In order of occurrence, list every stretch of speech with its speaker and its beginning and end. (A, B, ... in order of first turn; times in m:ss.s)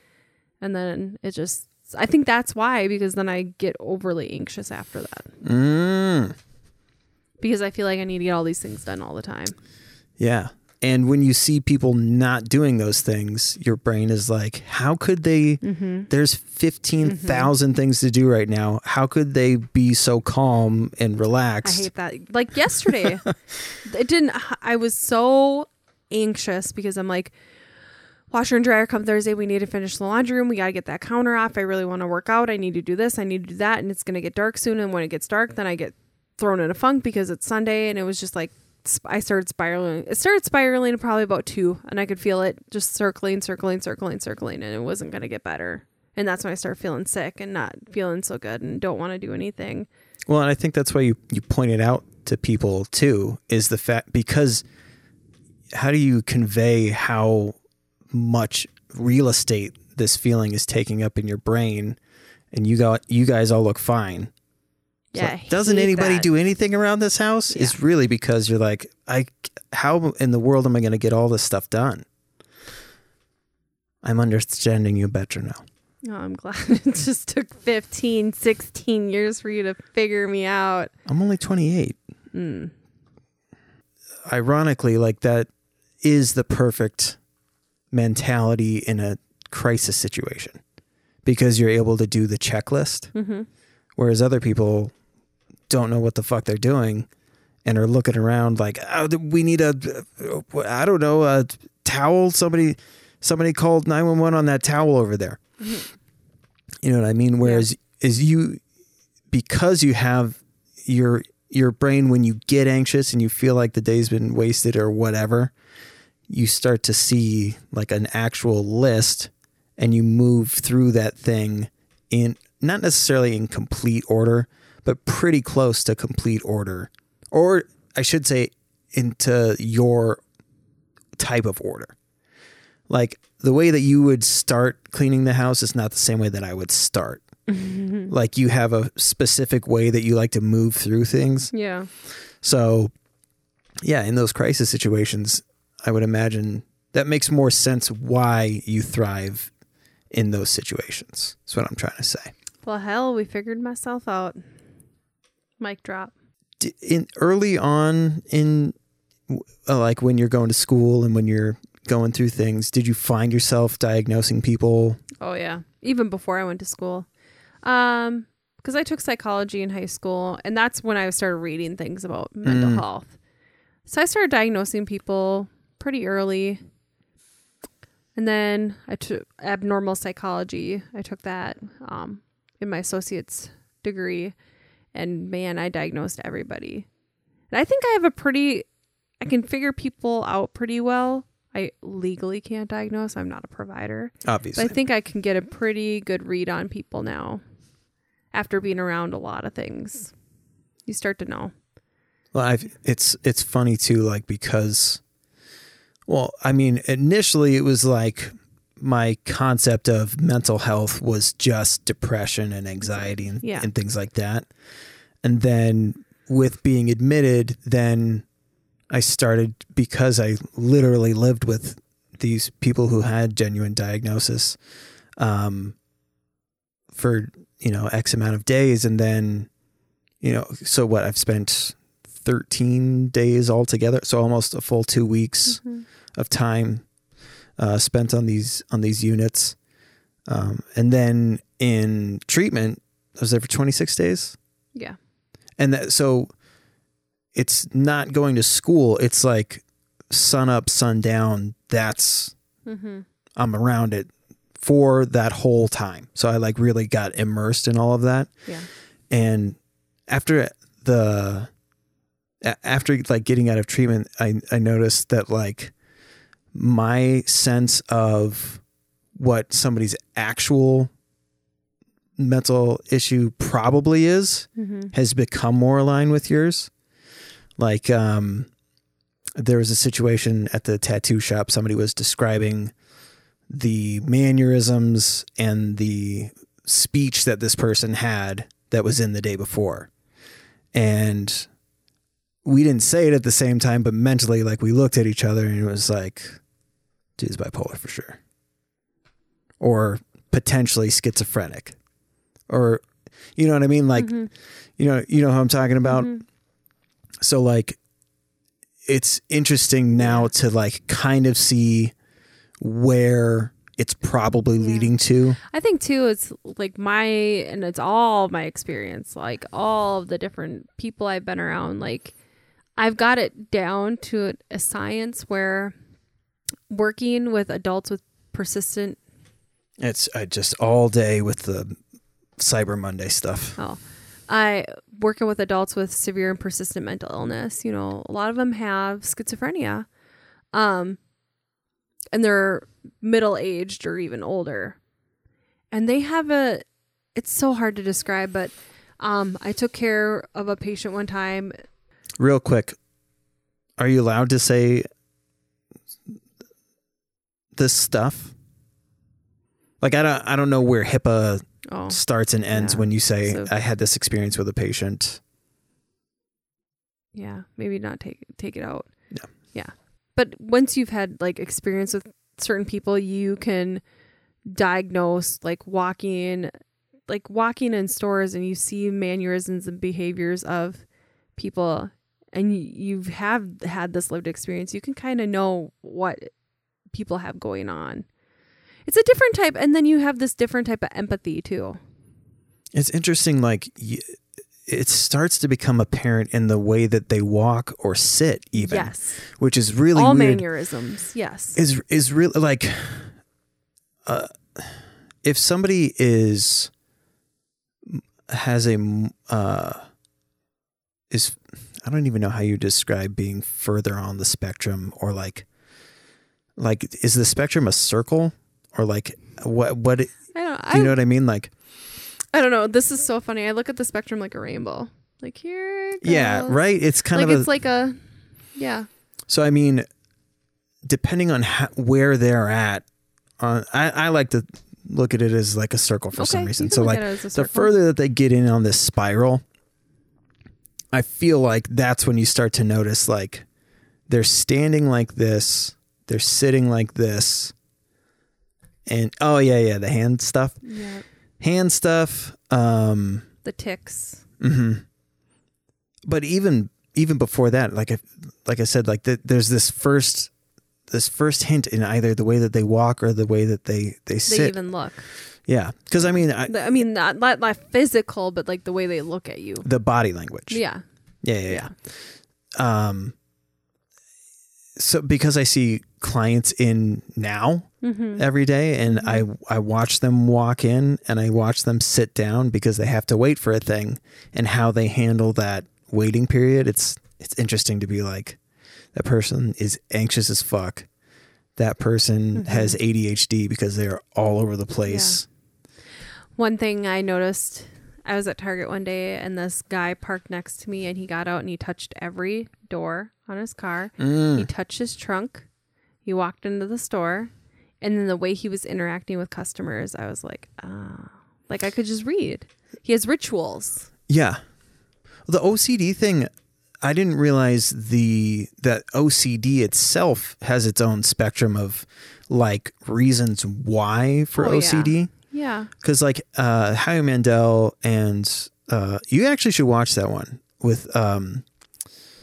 0:00.6-0:05.3 A
0:05.4-0:06.4 B
0:07.4-0:09.6 A
0:10.2-0:21.9 B
0:15.6-0:16.1 A
0:17.0-0:17.5 A
0:21.6-0:23.2 A
0:22.9-0:23.3 B
0:23.8-0:27.3 A
0:28.3-0:49.9 A
0:50.3-0:54.6 B
0:55.7-0:57.6 B
0:58.1-1:02.0 B
1:02.5-1:04.3 B
1:05.1-1:06.3 A
1:05.1-1:12.0 B
1:07.5-1:07.8 A
1:14.0-1:15.6 B
1:16.0-1:20.9 A
1:21.1-1:22.0 B
1:22.3-1:22.7 A
1:24.2-1:25.5 B
1:26.0-1:27.2 B
1:27.9-1:30.6 B
1:31.2-1:33.1 B
1:33.1-1:33.5 A
1:34.0-1:34.9 B
1:35.7-1:37.1 B
1:37.6-1:45.4 B
1:45.6-1:45.9 A
1:46.8-1:48.6 B
1:49.3-1:55.5 B
1:56.3-2:10.2 B
2:11.2-2:12.0 B
2:12.9-2:17.2 B
2:17.5-2:18.1 A
2:18.1-2:21.5 B
2:21.5-2:21.9 A
2:22.0-2:22.9 B
2:23.8-2:29.5 B
2:30.1-2:32.3 B
2:32.6-2:34.4 A
2:35.6-2:36.1 A
2:36.6-2:38.7 B
2:39.3-2:45.0 B
2:45.2-2:47.1 A
2:47.6-2:53.1 A
2:52.4-2:52.8 B
2:53.8-2:56.6 A
2:58.1-3:04.3 A
3:04.9-3:06.9 A
3:07.5-3:08.6 A
3:09.2-3:17.4 A
3:14.2-3:14.8 B
3:18.3-3:20.1 A
3:20.8-3:21.5 A
3:22.3-3:25.0 B
3:26.1-3:34.5 B
3:33.4-3:33.7 A
3:35.2-3:38.2 B
3:38.9-3:44.6 B
3:45.2-3:45.8 B
3:46.9-3:49.5 B
3:50.2-3:55.6 B
3:55.5-3:55.8 A
3:56.2-3:56.8 B
3:57.6-3:59.6 B
4:00.3-4:04.4 B
4:05.6-4:06.3 B
4:07.3-4:12.3 B
4:12.6-4:13.0 A
4:13.4-4:18.3 B
4:19.1-4:21.5 B
4:22.4-4:25.7 B
4:26.5-4:28.6 B
4:29.2-4:30.9 B
4:32.2-4:36.7 B
4:34.6-4:34.9 A
4:37.6-4:38.5 B
4:39.4-4:42.7 B
4:43.5-4:49.9 B
4:50.7-4:51.5 B
4:52.4-4:56.4 B
4:57.2-4:58.2 B
4:59.6-5:01.8 B
5:02.5-5:02.8 B
5:03.4-5:04.2 B
5:04.0-5:04.3 A
5:04.8-5:06.1 B
5:05.9-5:06.2 A
5:07.2-5:07.8 B
5:08.9-5:11.9 B
5:10.0-5:10.3 A
5:12.6-5:15.4 B
5:14.6-5:14.9 A
5:15.4-5:22.1 A
5:22.8-5:25.7 A
5:26.7-5:29.0 A
5:29.8-5:31.8 B
5:32.4-5:33.6 B
5:33.6-5:39.9 A
5:40.5-5:41.0 A
5:42.1-5:44.8 A
5:45.7-5:46.6 A
5:47.2-5:51.5 A
5:52.2-5:52.8 B
5:53.8-5:54.9 B
5:57.6-5:58.3 B
5:59.8-6:05.2 B
6:01.7-6:02.0 A
6:02.5-6:03.5 A
6:07.1-6:08.9 A
6:09.5-6:13.8 A
6:14.4-6:16.5 A
6:17.1-6:20.8 A
6:21.4-6:26.3 A
6:26.9-6:28.1 A
6:28.8-6:31.8 A
6:32.7-6:40.4 B
6:38.5-6:39.2 A
6:39.9-6:41.6 A
6:41.5-6:43.2 B
6:44.0-6:46.7 B
6:47.9-6:49.9 B
6:51.1-6:55.4 B
6:56.6-7:00.1 B
7:00.3-7:00.9 A
7:00.7-7:01.5 B
7:02.3-7:06.6 A
7:06.0-7:07.5 B
7:07.1-7:08.0 A
7:08.5-7:08.9 A
7:09.3-7:09.8 B
7:10.8-7:12.8 B
7:13.4-7:19.4 B
7:16.2-7:17.7 A
7:20.9-7:23.4 B
7:24.1-7:27.5 B
7:28.8-7:30.6 B
7:30.6-7:31.0 A
7:31.4-7:33.3 B
7:33.4-7:34.2 A
7:34.4-7:34.8 B
7:36.1-7:40.3 B
7:40.9-7:44.6 B
7:44.2-7:45.1 A
7:45.1-7:46.6 B
7:46.0-7:49.6 A
7:49.6-7:50.6 B
7:50.5-7:50.8 A
7:51.2-7:53.1 B
7:51.5-7:51.7 A
7:54.8-8:08.4 B
7:57.8-7:58.2 A
7:58.9-7:59.2 A
8:08.9-8:10.9 B
8:11.6-8:15.2 B
8:12.4-8:12.8 A
8:14.8-8:15.2 A
8:16.3-8:25.5 A
8:24.0-8:24.5 B
8:26.0-8:27.3 A
8:27.8-8:33.9 A
8:34.1-8:34.4 B
8:35.3-8:45.1 B
8:44.4-8:45.7 A
8:45.8-8:51.4 B